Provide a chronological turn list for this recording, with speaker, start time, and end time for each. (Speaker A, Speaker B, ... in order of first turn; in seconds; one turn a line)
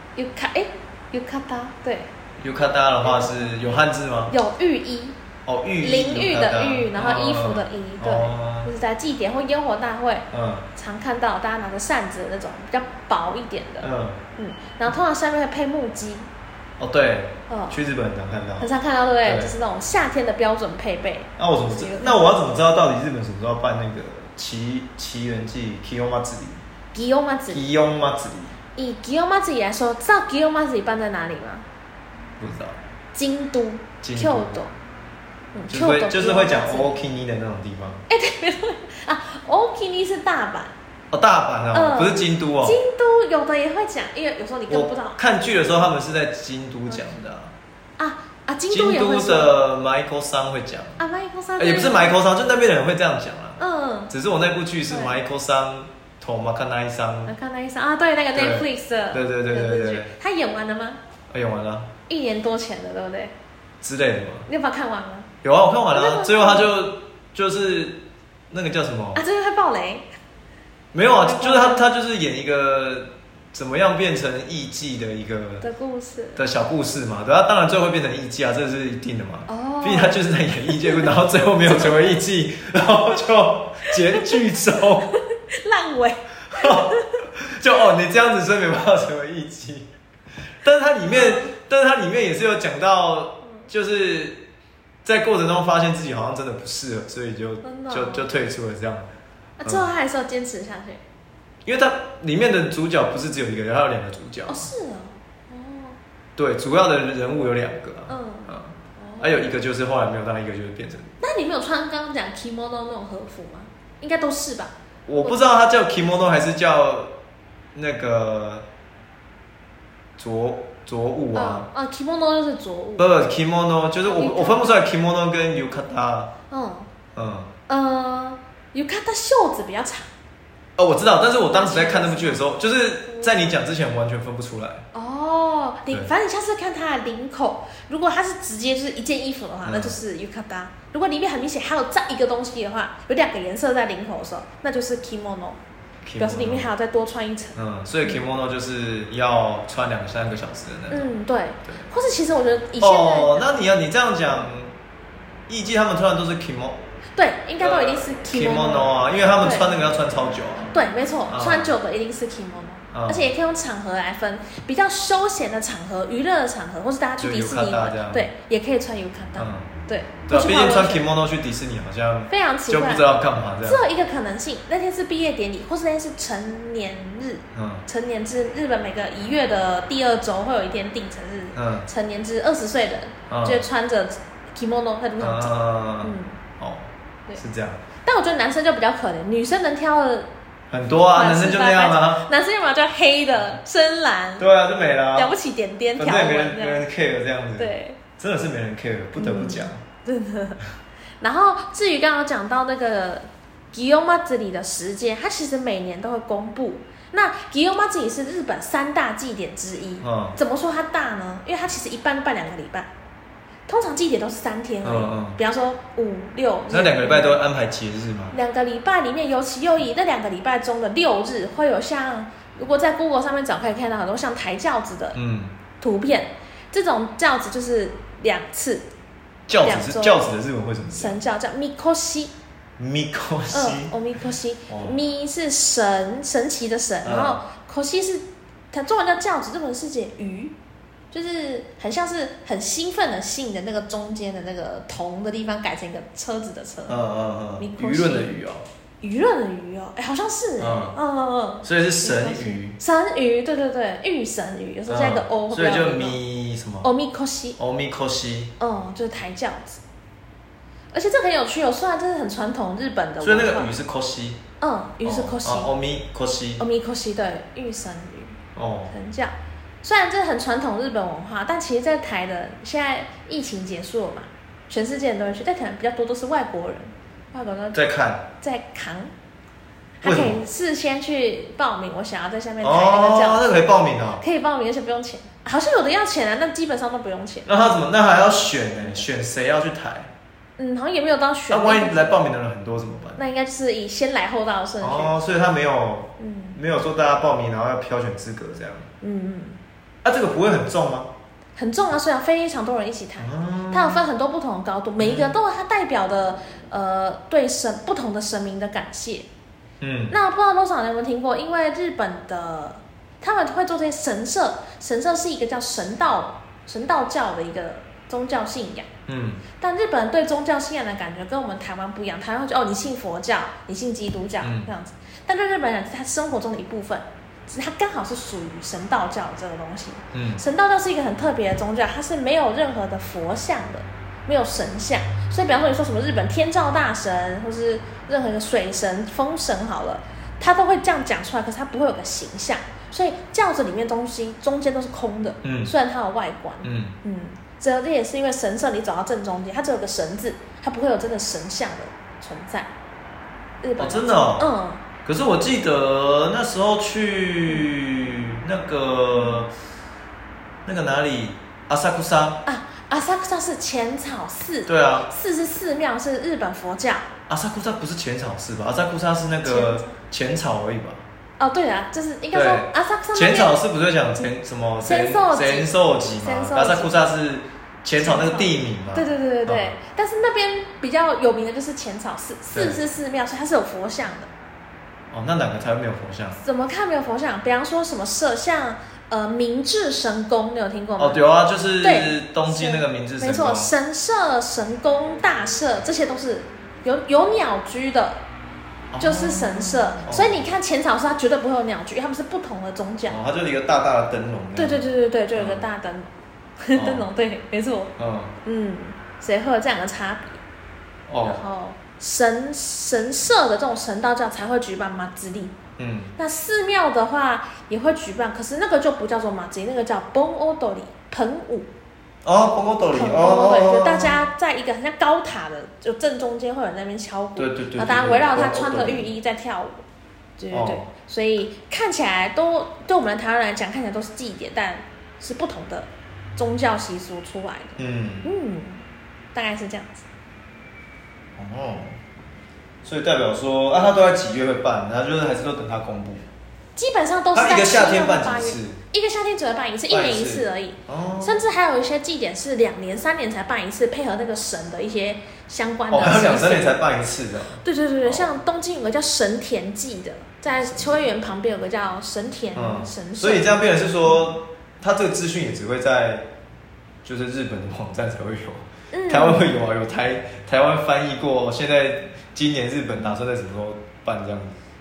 Speaker A: 0.2-2.1
Speaker B: 2.4-4.3
Speaker A: 3.0-3.5
Speaker A: 4.3-5.2
Speaker B: 5.5-8.7
Speaker A: 5.8-16.3
Speaker B: 10.3-10.7
Speaker B: 13.8-14.2
Speaker B: 16.8-18.7
Speaker A: 17.5-17.8
Speaker A: 18.6-22.3
Speaker B: 19.2-19.5
Speaker B: 21.4-26.6
Speaker A: 26.9-27.6
Speaker B: 27.5-28.6
Speaker A: 28.8-31.6
Speaker B: 32.4-32.8
Speaker A: 33.1-34.7
Speaker B: 34.0-34.6
Speaker A: 35.5-37.0
Speaker B: 35.7-38.0
Speaker A: 38.1-40.8
Speaker B: 41.1-42.8
Speaker A: 41.7-45.2
Speaker B: 44.7-47.5
Speaker A: 48.0-49.6
Speaker B: 48.7-51.0
Speaker A: 51.0-52.1
Speaker B: 51.6-57.3
Speaker A: 53.6-54.1
Speaker A: 54.9-55.2
Speaker A: 57.3-61.0
Speaker B: 58.3-60.1
Speaker B: 61.3-61.9
Speaker A: 62.1-63.3
Speaker B: 63.8-64.5
Speaker A: 64.5-65.3
Speaker B: 65.4-68.0
Speaker A: 65.9-66.7
Speaker B: 68.5-69.2
Speaker A: 69.2-70.1
Speaker B: 70.9-75.7
Speaker A: 71.2-71.9
Speaker A: 75.6-76.4
Speaker B: 76.4-85.1
Speaker A: 79.5-82.2
Speaker A: 83.9-84.4
Speaker A: 85.0-87.2
Speaker B: 86.5-89.9
Speaker B: 90.6-94.4
Speaker A: 91.0-91.5
Speaker B: 95.0-99.1
Speaker A: 97.6-98.3
Speaker A: 99.6-101.0
Speaker B: 99.6-99.9
Speaker B: 101.7-104.7
Speaker A: 104.5-106.0
Speaker B: 106.4-111.1
Speaker A: 108.1-109.5
Speaker A: 111.2-115.4
Speaker B: 115.1-117.1
Speaker B: 117.8-118.7
Speaker B: 120.2-121.7
Speaker A: 121.3-123.1
Speaker B: 123.0-126.3
Speaker A: 124.0-124.8
Speaker A: 126.5-126.9
Speaker B: 127.2-127.5
Speaker A: 127.7-130.1
Speaker B: 130.8-134.8
Speaker A: 131.5-132.5
Speaker A: 133.1-133.6
Speaker A: 134.9-145.6
Speaker B: 139.7-140.0
Speaker B: 146.0-146.7
Speaker A: 146.2-148.2
Speaker B: 147.6-151.1
Speaker A: 150.9-153.6
Speaker B: 152.8-154.7
Speaker B: 155.5-156.8
Speaker A: 157.2-159.7
Speaker B: 157.6-160.8
Speaker A: 160.7-171.0
Speaker B: 161.3-161.8
Speaker B: 162.9-163.3
Speaker B: 167.2-168.3
Speaker B: 169.4-169.7
Speaker B: 170.3-173.9
Speaker A: 172.3-173.1
Speaker A: 173.6-186.4
Speaker B: 177.5-177.8
Speaker B: 181.6-181.9
Speaker B: 183.3-183.7
Speaker B: 185.2-187.8
Speaker A: 188.0-190.3
Speaker B: 190.7-192.3
Speaker A: 190.9-194.5
Speaker B: 194.4-195.3
Speaker A: 195.1-196.8
Speaker B: 196.0-199.8
Speaker A: 197.6-198.0
Speaker A: 199.2-200.6
Speaker A: 201.2-212.9
Speaker B: 210.0-210.4
Speaker A: 213.7-217.4
Speaker B: 214.8-215.4
Speaker B: 216.7-218.4
Speaker A: 218.3-225.2
Speaker B: 225.2-225.6
Speaker A: 225.8-228.9
Speaker B: 229.5-231.2
Speaker A: 229.6-230.3
Speaker A: 230.9-232.3
Speaker B: 232.8-233.9
Speaker A: 233.5-240.5
Speaker B: 234.7-235.0
Speaker B: 237.0-237.4
Speaker A: 241.1-247.0
Speaker B: 246.9-248.6
Speaker A: 247.6-248.3
Speaker A: 249.0-256.2
Speaker B: 250.6-251.0
Speaker B: 251.6-252.8
Speaker B: 254.9-256.9
Speaker A: 256.8-257.6
Speaker B: 257.6-258.5
Speaker A: 258.6-259.8
Speaker A: 260.9-263.7
Speaker B: 263.2-264.4
Speaker A: 264.6-265.7
Speaker B: 265.0-266.6
Speaker A: 266.6-268.4
Speaker B: 268.6-268.9
Speaker A: 268.9-277.8
Speaker B: 277.7-278.2
Speaker A: 278.4-279.1
Speaker A: 280.0-283.5
Speaker B: 280.0-280.4
Speaker B: 282.6-284.2
Speaker A: 284.2-287.5
Speaker B: 287.5-290.1
Speaker A: 290.6-292.2
Speaker B: 291.5-293.2
Speaker A: 293.2-295.1
Speaker B: 294.8-298.9
Speaker A: 296.2-296.6
Speaker A: 299.0-299.6
Speaker B: 300.0-301.1
Speaker A: 301.6-309.3
Speaker B: 303.2-304.0
Speaker B: 305.0-305.4
Speaker B: 309.8-310.2
Speaker A: 310.1-318.9
Speaker B: 319.1-319.4
Speaker A: 319.6-352.7
Speaker B: 324.4-324.7
Speaker B: 330.1-330.4
Speaker B: 345.4-345.7
Speaker B: 346.6-347.0
Speaker A: 353.6-354.8
Speaker B: 353.8-354.5
Speaker B: 355.1-359.5
Speaker A: 359.1-359.4
Speaker B: 360.6-362.4
Speaker A: 362.4-367.1
Speaker B: 364.7-365.1
Speaker B: 367.3-371.1
Speaker A: 369.4-369.9
Speaker A: 371.4-373.6
Speaker B: 372.3-379.8
Speaker A: 374.8-376.9
Speaker A: 378.0-384.3
Speaker B: 382.5-382.8
Speaker B: 385.1-386.4
Speaker A: 386.4-391.2
Speaker B: 391.0-393.7
Speaker A: 391.8-398.2
Speaker B: 398.9-400.4
Speaker A: 399.0-403.2
Speaker B: 403.1-404.8
Speaker A: 404.6-406.1
Speaker B: 405.4-405.6
Speaker A: 406.6-407.9
Speaker B: 406.8-407.1
Speaker B: 408.0-408.3
Speaker A: 408.4-410.4
Speaker B: 411.1-411.4
Speaker A: 411.2-415.6
Speaker B: 415.8-416.1
Speaker A: 416.2-421.7
Speaker B: 422.2-424.2
Speaker A: 422.9-429.8
Speaker B: 427.4-429.1
Speaker A: 430.4-438.8
Speaker B: 430.5-430.9
Speaker B: 437.8-438.3
Speaker A: 439.3-440.1
Speaker B: 441.4-442.0
Speaker B: 442.8-446.3
Speaker A: 446.8-456.8
Speaker B: 447.3-448.8
Speaker B: 449.9-451.4
Speaker B: 455.9-458.3
Speaker A: 457.6-464.3
Speaker B: 460.5-461.1
Speaker B: 462.5-466.3
Speaker B: 467.0-474.6
Speaker A: 468.9-469.5